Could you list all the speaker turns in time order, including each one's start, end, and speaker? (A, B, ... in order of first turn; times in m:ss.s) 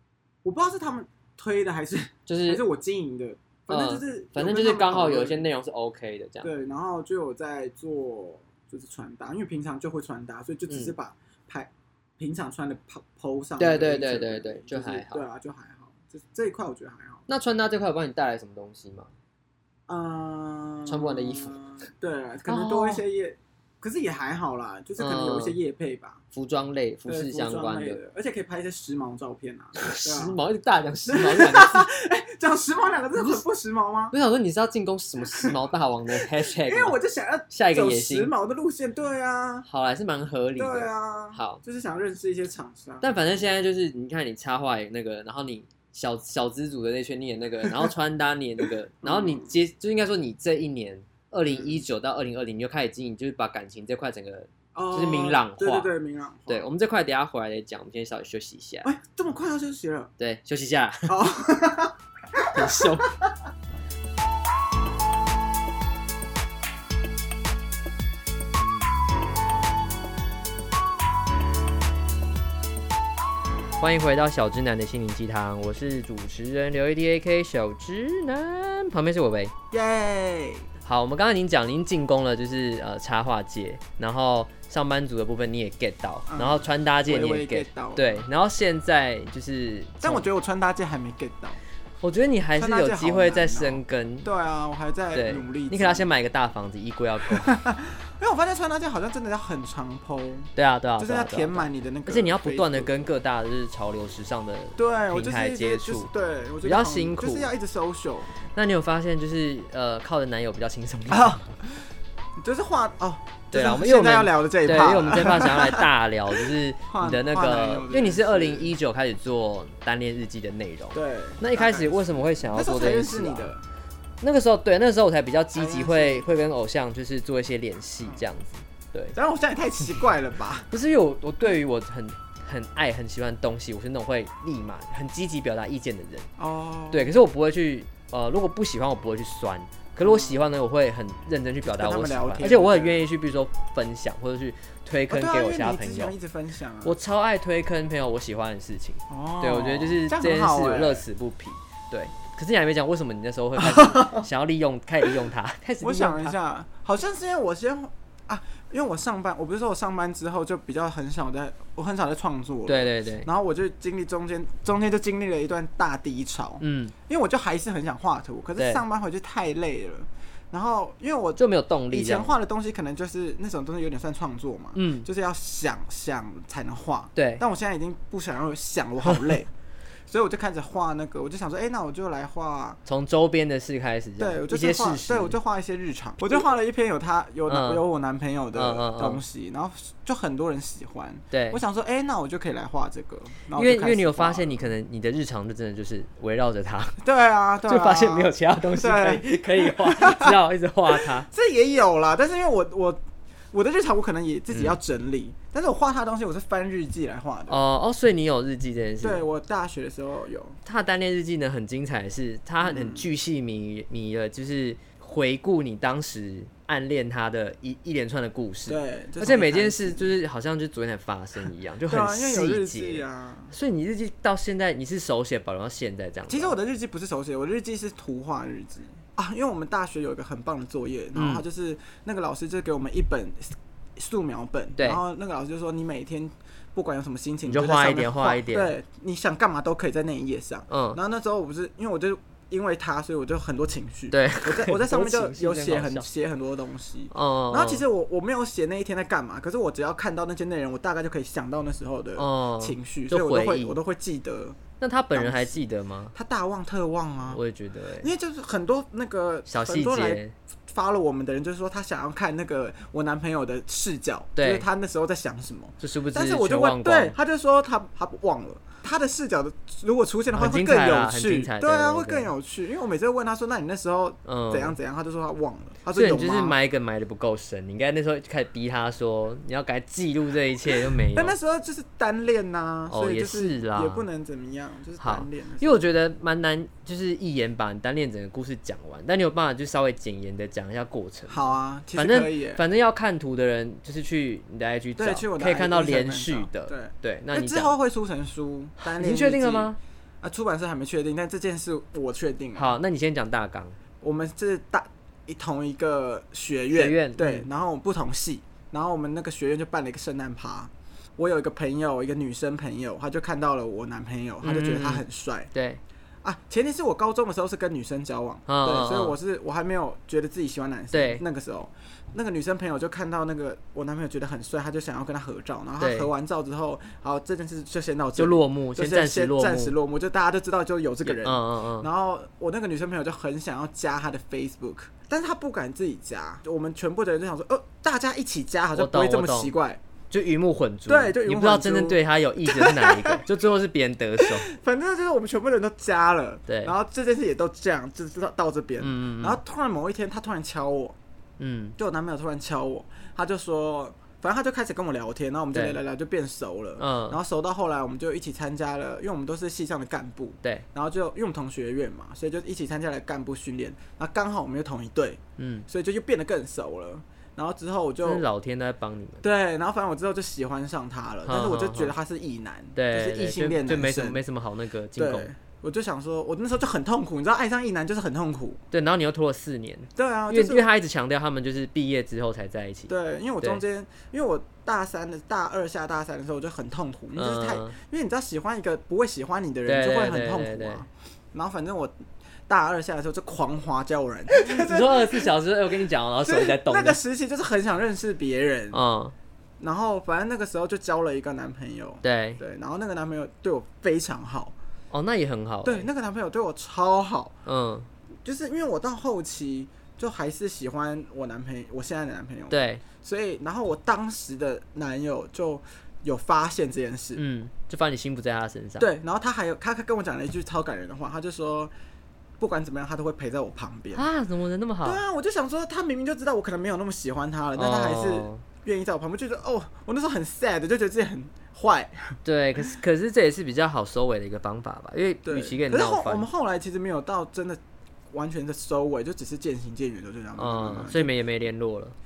0:00.4-0:05.5 A
0:02.3-0:02.6 B
0:03.7-0:06.5 B
0:06.4-0:17.2 A
0:10.7-0:10.9 B
0:13.6-0:15.2 B
0:17.3-0:19.1 B
0:19.9-0:26.2 A
0:20.8-0:21.6 B
0:22.5-0:23.0 B
0:25.0-0:25.6 B
0:26.3-0:28.0 B
0:27.1-0:30.4 A
0:29.8-0:31.9 B
0:31.1-0:34.1 A
0:33.2-0:33.4 B
0:34.1-0:37.0 B
0:36.2-0:39.7 A
0:37.5-0:38.3 B
0:39.6-0:41.6 B
0:40.6-0:43.4 A
0:43.0-0:55.9 B
0:47.6-0:47.9 A
0:48.6-0:49.5 A
0:51.5-0:51.8 A
0:54.7-0:56.7 A
0:56.5-0:58.9 B
0:58.8-1:00.1 A
1:00.2-1:01.2 B
1:01.1-1:03.2 A
1:02.5-1:03.1 B
1:13.8-1:19.5 B
1:19.7-1:20.7 A
1:20.8-1:30.2 B
1:26.3-1:28.2 A
1:30.0-1:31.6 A
1:32.0-1:34.3 B
1:32.6-1:36.1 A
1:35.1-1:37.6 B
1:37.3-1:43.0 A
1:40.6-1:46.1 B
1:44.8-1:48.3 A
1:46.6-1:47.5 B
1:48.5-1:51.6 B
1:51.1-1:51.4 A
1:52.4-1:56.3 A
1:53.5-2:03.5 B
1:56.9-1:58.7 A
2:00.9-2:03.6 A
2:04.2-2:09.2 B
2:05.6-2:06.3 A
2:09.1-2:10.7 A
2:10.7-2:16.3 B
2:16.4-2:17.1 A
2:16.9-2:26.1 B
2:20.0-2:20.4 A
2:21.6-2:23.1 A
2:25.1-2:27.0 A
2:26.8-2:36.4 B
2:29.1-2:31.0 A
2:33.6-2:34.2 A
2:35.8-2:59.5 A
2:42.6-2:43.3 B
2:46.6-2:46.9 B
2:48.6-2:48.8 B
2:51.4-2:52.3 B
2:54.7-2:55.1 B
2:57.1-2:57.4 B
3:00.1-3:02.8 A
3:02.8-3:05.4 B
3:04.2-3:14.7 A
3:07.5-3:07.8 B
3:08.5-3:09.2 B
3:11.3-3:11.6 B
3:13.5-3:17.0 B
3:17.0-3:20.4 A
3:17.6-3:21.3 B
3:20.9-3:23.0 A
3:23.5-3:27.6 A
3:24.5-3:24.8 B
3:27.5-3:29.2 B
3:29.0-3:30.6 A
3:30.6-3:46.5 B
3:32.6-3:33.1 A
3:38.7-3:40.1 A
3:41.9-3:43.5 A
3:46.3-4:14.6 A
3:51.1-3:51.4 B
3:57.4-3:58.7 B
4:00.7-4:01.0 B
4:04.1-4:06.1 B
4:07.1-4:07.8 B
4:12.2-4:13.8 B
4:14.8-4:16.1 B
4:15.1-4:15.6 A
4:16.1-4:17.4 A
4:17.3-4:18.1 B
4:18.0-4:36.6 A
4:19.5-4:20.3 B
4:24.4-4:24.6 B
4:25.8-4:27.2 B
4:30.3-4:32.3 B
4:34.2-4:34.8 B
4:35.9-4:41.4 B
4:40.7-4:45.9 A
4:42.9-4:44.0 B
4:45.0-4:57.7 B
4:51.3-4:52.6 A
4:55.0-5:02.7 A
4:58.8-4:59.8 B
5:02.5-5:03.8 B
5:04.0-5:15.5 A
5:06.7-5:07.4 B
5:14.4-5:15.8 B
5:16.2-5:39.8 A
5:18.5-5:19.2 B
5:20.9-5:21.2 B
5:25.8-5:26.1 B
5:28.2-5:29.7 B
5:31.0-5:31.9 B
5:38.7-5:39.5 B
5:40.1-5:44.5 B
5:40.9-5:43.2 A
5:44.2-5:51.0 A
5:46.5-5:46.7 B
5:48.8-5:49.4 B
5:51.4-5:51.8 B
5:51.8-6:08.2 A
5:55.5-5:55.8 B
5:56.8-5:57.2 B
6:05.4-6:05.6 B
6:08.0-6:09.2 B
6:09.2-6:14.2 A
6:11.2-6:11.9 B
6:12.7-6:15.3 B
6:15.0-6:18.6 A
6:18.7-6:23.6 B
6:20.0-6:20.7 A
6:22.9-6:32.0 A
6:27.2-6:27.8 B
6:29.6-6:30.8 B
6:32.5-6:35.3 A
6:34.3-6:37.0 B
6:36.2-6:38.8 A
6:38.7-6:39.1 B
6:39.6-6:44.5 A
6:42.0-6:42.4 B
6:44.9-6:45.9 B
6:45.6-6:47.3 A
6:47.4-6:47.9 B
6:48.2-6:57.2 A
6:52.5-6:52.8 B
6:57.2-6:58.9 B
6:58.8-7:01.7 A
7:02.4-7:04.0 A
7:03.9-7:05.0 B
7:04.8-7:12.2 A
7:07.6-7:08.4 B
7:12.2-7:16.3 B
7:15.2-7:17.6 A
7:18.1-7:21.1 A
7:20.4-7:22.0 B